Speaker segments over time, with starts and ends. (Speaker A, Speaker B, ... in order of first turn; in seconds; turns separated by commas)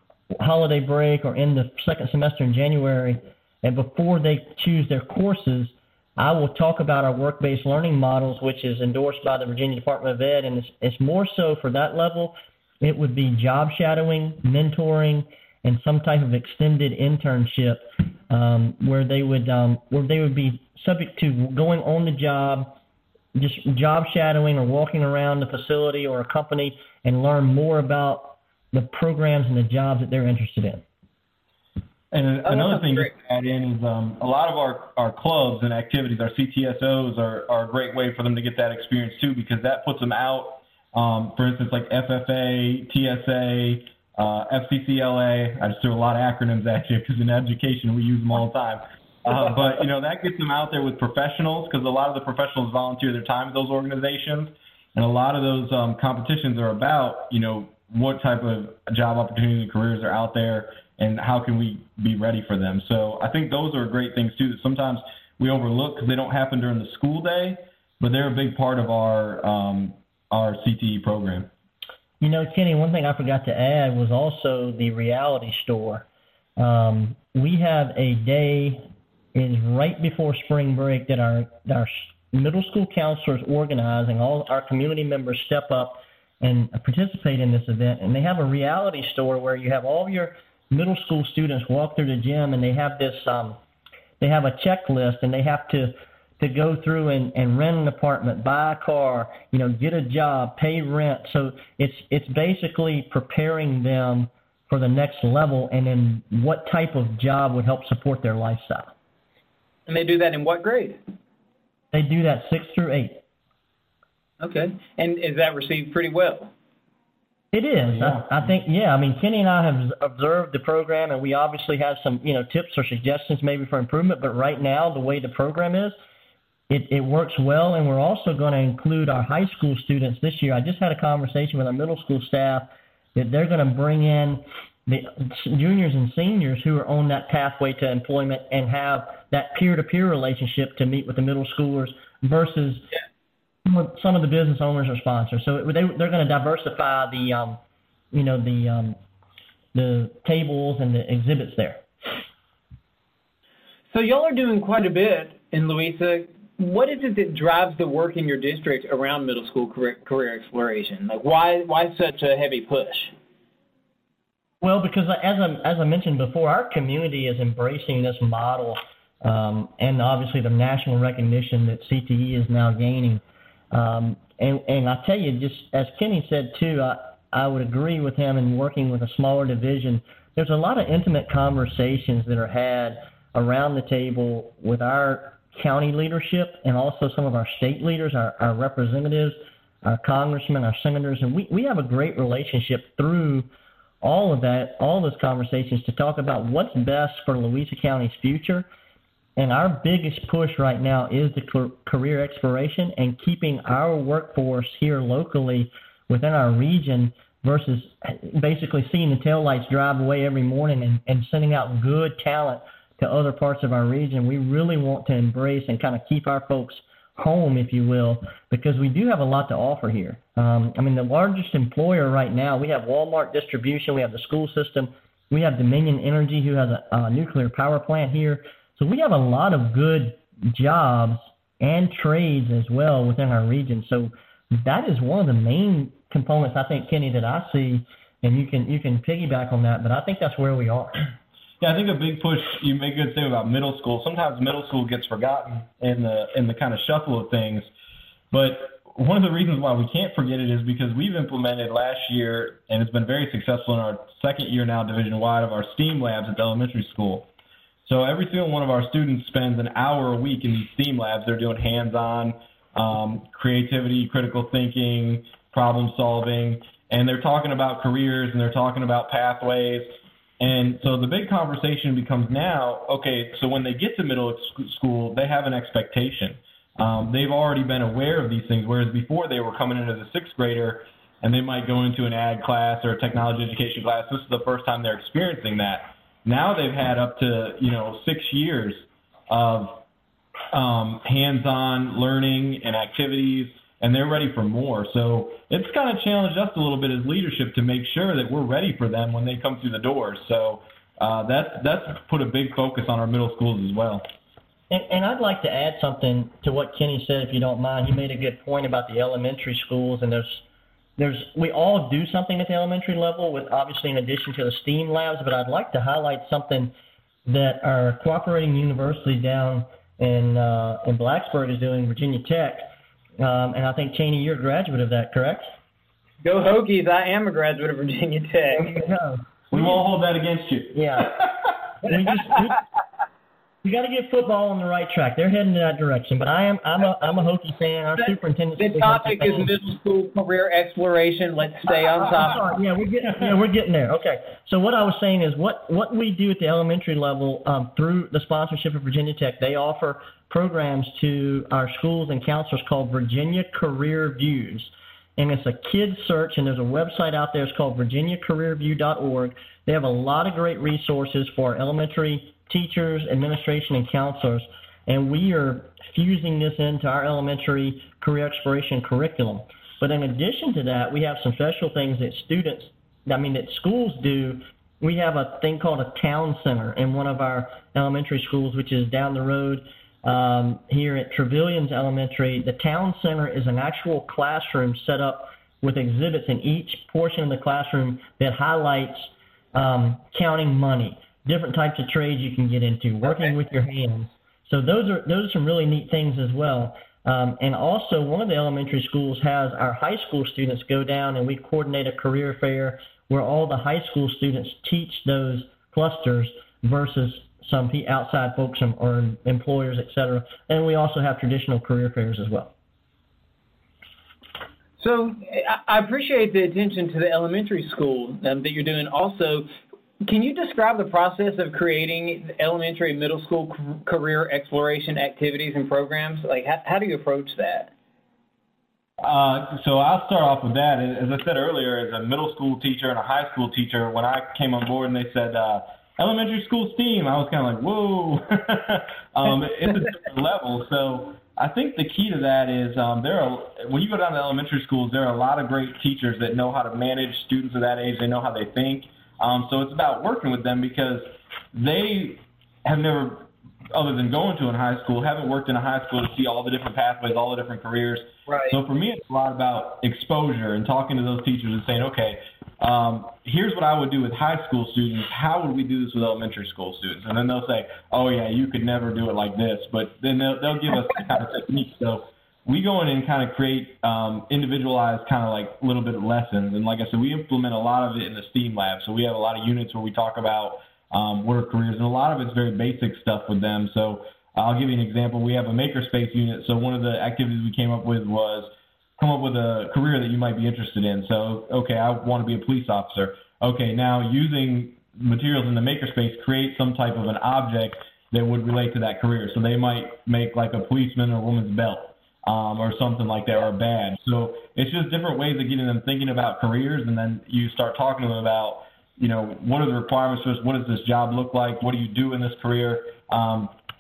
Speaker A: 0.4-22.8, Speaker A: 23.4-30.8, Speaker B: 32.1-71.5, Speaker C: 32.5-33.1, Speaker A: 72.2-76.1, Speaker A: 76.6-78.8, Speaker A: 79.3-93.6, Speaker A: 94.2-108.9, Speaker C: 109.9-111.0, Speaker A: 111.9-113.2, Speaker C: 114.4-116.5, Speaker A: 117.5-125.9, Speaker A: 126.7-142.8, Speaker A: 143.7-147.6, Speaker A: 148.1-149.0, Speaker A: 149.7-151.8, Speaker C: 153.9-163.1, Speaker A: 164.6-193.5, Speaker A: 194.0-198.7, Speaker A: 199.4-241.1, Speaker B: 241.6-247.7, Speaker B: 248.3-257.3, Speaker B: 257.9-289.8, Speaker B: 290.5-304.1, Speaker A: 304.7-310.4, Speaker A: 311.0-316.7, Speaker A: 317.3-325.6, Speaker C: 326.2-328.8, Speaker A: 328.6-329.2, Speaker B: 329.5-331.5, Speaker A: 330.7-331.3, Speaker A: 331.8-332.6, Speaker A: 333.6-339.5, Speaker C: 338.1-342.4, Speaker A: 342.1-412.5, Speaker C: 414.8-419.5, Speaker C: 420.0-427.7, Speaker B: 429.0-513.5, Speaker C: 458.3-458.6